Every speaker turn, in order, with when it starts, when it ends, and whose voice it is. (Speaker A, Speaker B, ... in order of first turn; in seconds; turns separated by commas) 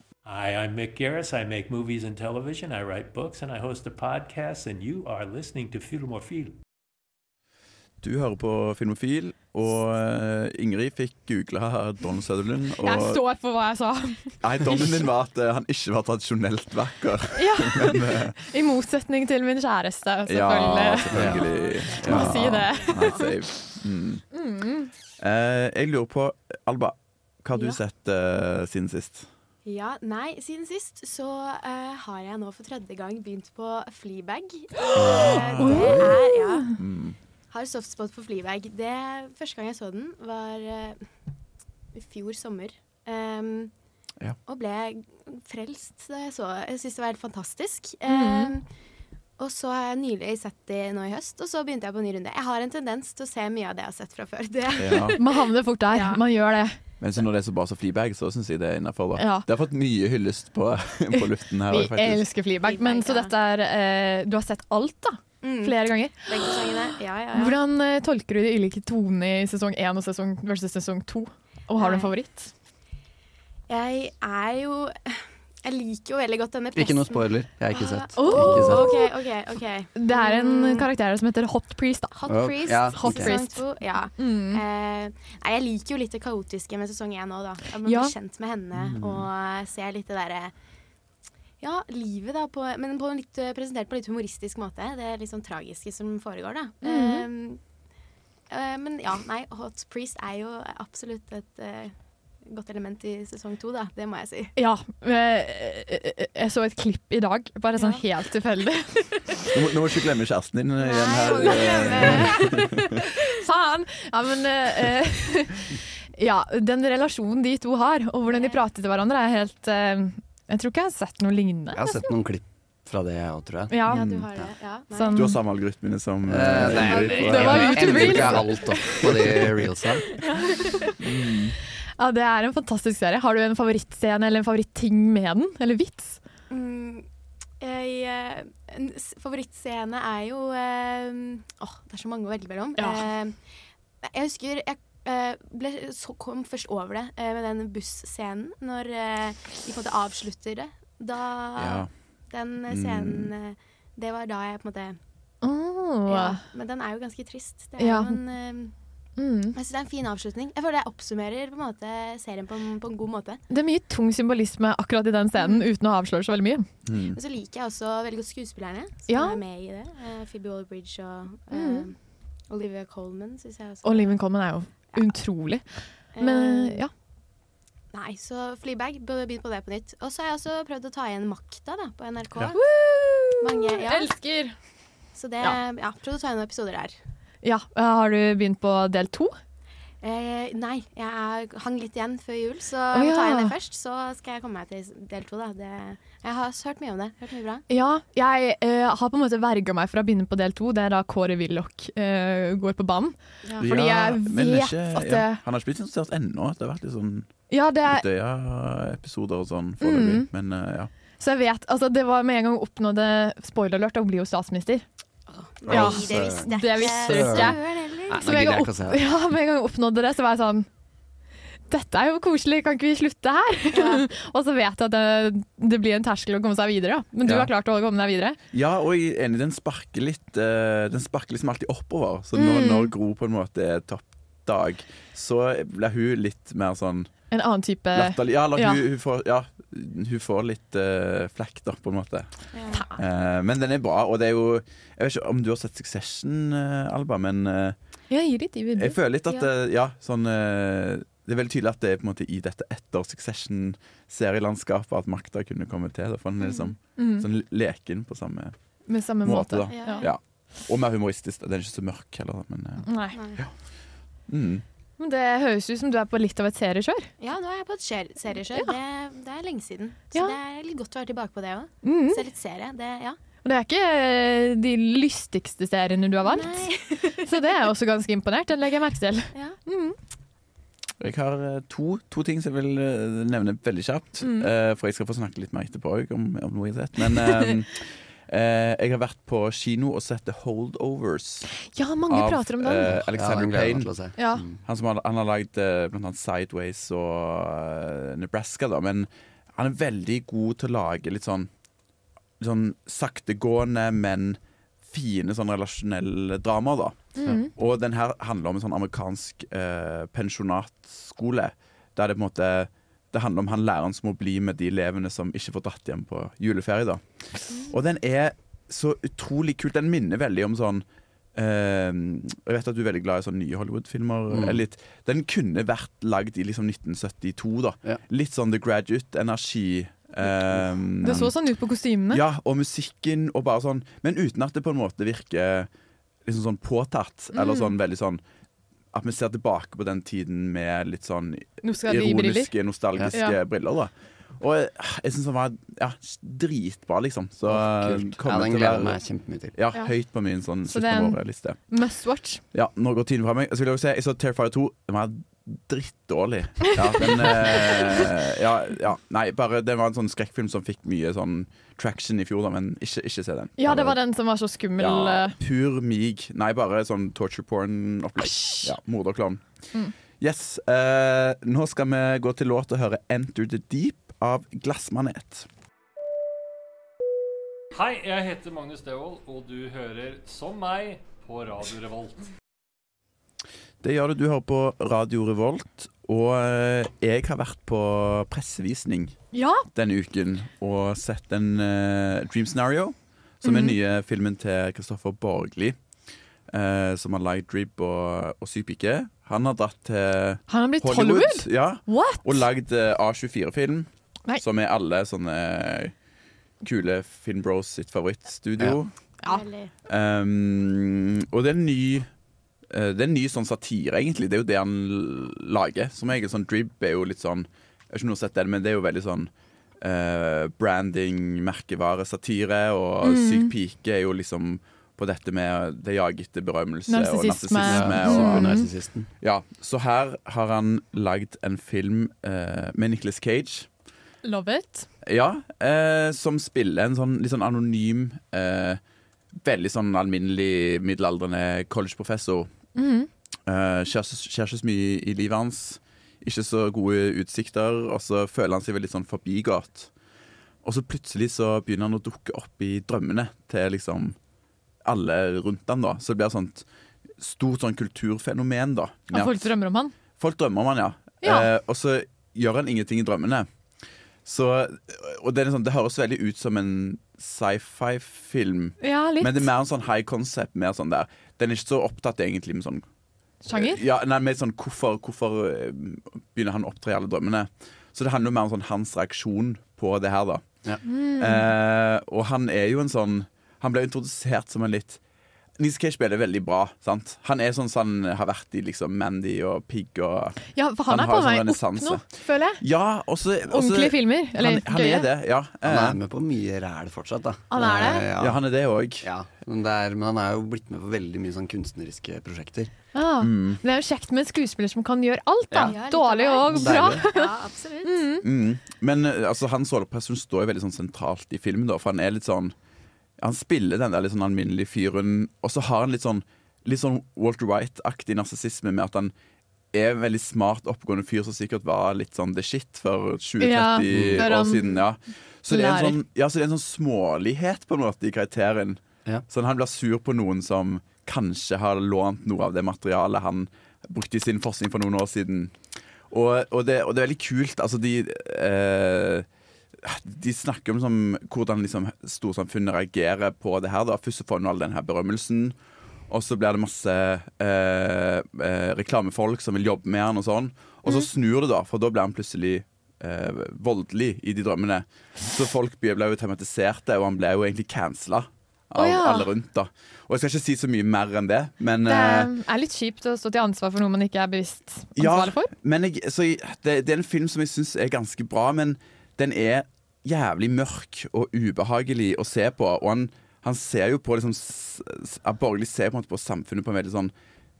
Speaker A: 0.2-6.6, Speaker B: 8.0-13.2, Speaker C: 12.8-14.9, Speaker B: 14.4-18.4, Speaker C: 17.3-21.3, Speaker B: 20.3-24.2, Speaker D: 21.1-22.6, Speaker E: 21.3-23.2, Speaker C: 22.0-23.3, Speaker C: 24.3-24.9, Speaker B: 25.2-29.3, Speaker E: 29.6-36.8, Speaker D: 35.0-36.1, Speaker B: 35.0-36.1, Speaker C: 35.7-36.7, Speaker B: 36.8-37.2, Speaker E: 37.5-41.1, Speaker E: 41.9-43.7, Speaker E: 44.5-48.6, Speaker C: 48.1-48.5, Speaker E: 49.4-55.4, Speaker B: 54.8-55.2, Speaker C: 55.2-56.8, Speaker E: 55.9-56.2, Speaker B: 57.0-62.2, Speaker C: 59.1-59.5, Speaker C: 61.7-66.3, Speaker E: 62.6-63.3, Speaker E: 65.4-67.6, Speaker C: 67.3-72.5, Speaker E: 71.8-72.1, Speaker E: 73.7-80.9, Speaker D: 76.7-79.0, Speaker C: 78.2-79.1, Speaker C: 80.0-83.6, Speaker E: 82.1-90.5, Speaker D: 82.3-83.3, Speaker C: 84.2-84.6, Speaker C: 87.8-88.1, Speaker B: 88.8-89.2, Speaker E: 91.6-97.6, Speaker C: 96.8-97.3, Speaker E: 98.5-101.9, Speaker E: 102.5-104.5, Speaker C: 104.5-109.5, Speaker E: 107.8-108.0, Speaker B: 109.5-112.8, Speaker E: 110.8-112.8, Speaker C: 111.3-121.9, Speaker E: 118.3-118.6, Speaker D: 121.7-123.8, Speaker C: 123.7-124.0, Speaker E: 123.8-125.3, Speaker B: 123.9-124.3, Speaker C: 124.9-125.4, Speaker B: 125.1-128.6, Speaker D: 126.2-130.1, Speaker E: 126.6-127.8, Speaker C: 127.2-129.3, Speaker B: 129.3-129.6, Speaker C: 130.2-130.9, Speaker B: 131.0-131.5, Speaker C: 132.0-136.2, Speaker E: 136.5-137.1, Speaker E: 137.6-143.4, Speaker C: 142.8-143.0, Speaker E: 144.0-155.0, Speaker B: 151.6-151.9, Speaker B: 152.7-153.3, Speaker C: 155.4-156.4, Speaker E: 156.1-158.7, Speaker C: 157.8-158.2, Speaker C: 159.2-159.6, Speaker E: 159.5-163.4, Speaker C: 163.5-166.7, Speaker B: 166.8-167.2, Speaker E: 167.1-172.0, Speaker C: 169.1-169.4, Speaker C: 171.5-171.9, Speaker E: 172.5-174.2, Speaker C: 173.8-176.9, Speaker E: 176.1-176.8, Speaker E: 177.9-182.6, Speaker C: 182.5-184.5, Speaker E: 183.4-184.1, Speaker E: 185.1-186.9, Speaker C: 187.4-189.3, Speaker E: 190.0-197.6, Speaker C: 192.9-193.5, Speaker C: 197.7-205.4, Speaker B: 203.6-210.9, Speaker C: 207.5-208.0, Speaker C: 209.8-210.3, Speaker C: 211.2-214.8, Speaker E: 215.3-218.2, Speaker D: 215.6-219.0, Speaker C: 215.7-217.6, Speaker C: 218.1-220.7, Speaker C: 221.7-228.4, Speaker E: 223.7-224.0, Speaker B: 227.2-227.5, Speaker B: 228.5-237.1, Speaker C: 232.3-232.9, Speaker C: 237.3-238.8, Speaker B: 237.9-242.3, Speaker E: 242.5-242.8, Speaker C: 242.7-243.0, Speaker B: 242.9-247.8, Speaker C: 248.1-249.0, Speaker B: 248.8-258.5, Speaker C: 256.5-257.2, Speaker C: 258.9-260.1, Speaker B: 259.2-263.5, Speaker E: 259.7-260.1, Speaker C: 262.9-263.2, Speaker E: 263.1-263.4, Speaker B: 264.3-264.6, Speaker C: 265.0-267.1, Speaker E: 267.2-273.2, Speaker C: 271.8-272.2, Speaker C: 273.4-280.0, Speaker E: 276.2-277.4, Speaker B: 281.0-291.5, Speaker C: 284.2-284.5, Speaker C: 291.7-292.9, Speaker B: 292.1-293.9, Speaker D: 292.9-294.6, Speaker C: 294.2-294.4, Speaker B: 294.6-301.5, Speaker B: 302.4-317.0, Speaker C: 307.2-307.5, Speaker B: 317.6-331.3, Speaker D: 324.3-324.6, Speaker C: 331.0-332.2, Speaker B: 332.1-335.7, Speaker B: 336.2-338.2, Speaker C: 337.3-337.7, Speaker B: 338.9-349.0, Speaker C: 341.6-342.5, Speaker D: 347.4-349.6, Speaker B: 349.5-351.6, Speaker C: 350.7-352.4, Speaker B: 352.5-364.0, Speaker C: 357.3-357.8, Speaker C: 363.6-365.4, Speaker B: 364.8-369.4, Speaker C: 368.2-368.7, Speaker B: 370.2-375.5, Speaker A: 377.7-382.3, Speaker B: 383.8-389.1, Speaker C: 389.3-389.6, Speaker B: 389.7-395.8, Speaker C: 393.4-393.8, Speaker B: 396.5-403.9, Speaker C: 400.5-402.4, Speaker B: 404.4-405.9, Speaker B: 406.6-408.9, Speaker E: 409.2-409.7, Speaker B: 409.9-412.1, Speaker B: 412.7-428.6, Speaker C: 423.0-423.5, Speaker C: 426.9-428.7, Speaker D: 427.6-429.1, Speaker B: 429.2-433.7, Speaker C: 434.2-434.9, Speaker B: 435.0-438.8, Speaker B: 439.4-442.5, Speaker C: 442.7-443.1, Speaker B: 443.5-449.9, Speaker B: 450.6-454.1, Speaker B: 454.8-456.6, Speaker B: 457.2-459.5, Speaker C: 459.1-459.9, Speaker B: 460.1-463.5, Speaker C: 461.2-461.5, Speaker B: 464.2-472.8, Speaker C: 468.8-469.5, Speaker C: 473.4-473.8, Speaker B: 473.5-480.4, Speaker C: 480.8-481.5, Speaker B: 481.2-485.0, Speaker B: 485.6-496.0, Speaker C: 490.5-492.6, Speaker C: 493.5-495.1, Speaker D: 495.6-498.4, Speaker C: 497.5-498.1, Speaker B: 498.1-499.1, Speaker D: 499.0-502.7, Speaker C: 502.9-507.3, Speaker B: 503.2-503.6, Speaker E: 505.6-508.1, Speaker D: 506.5-507.0, Speaker C: 507.8-508.2, Speaker B: 508.2-512.5, Speaker B: 513.2-519.1, Speaker B: 519.7-535.6, Speaker C: 523.4-524.8, Speaker D: 523.9-524.3, Speaker C: 525.5-526.0, Speaker B: 536.1-539.3, Speaker B: 539.8-545.5, Speaker B: 546.1-562.3, Speaker C: 558.8-559.3, Speaker C: 561.9-565.5, Speaker B: 565.0-577.1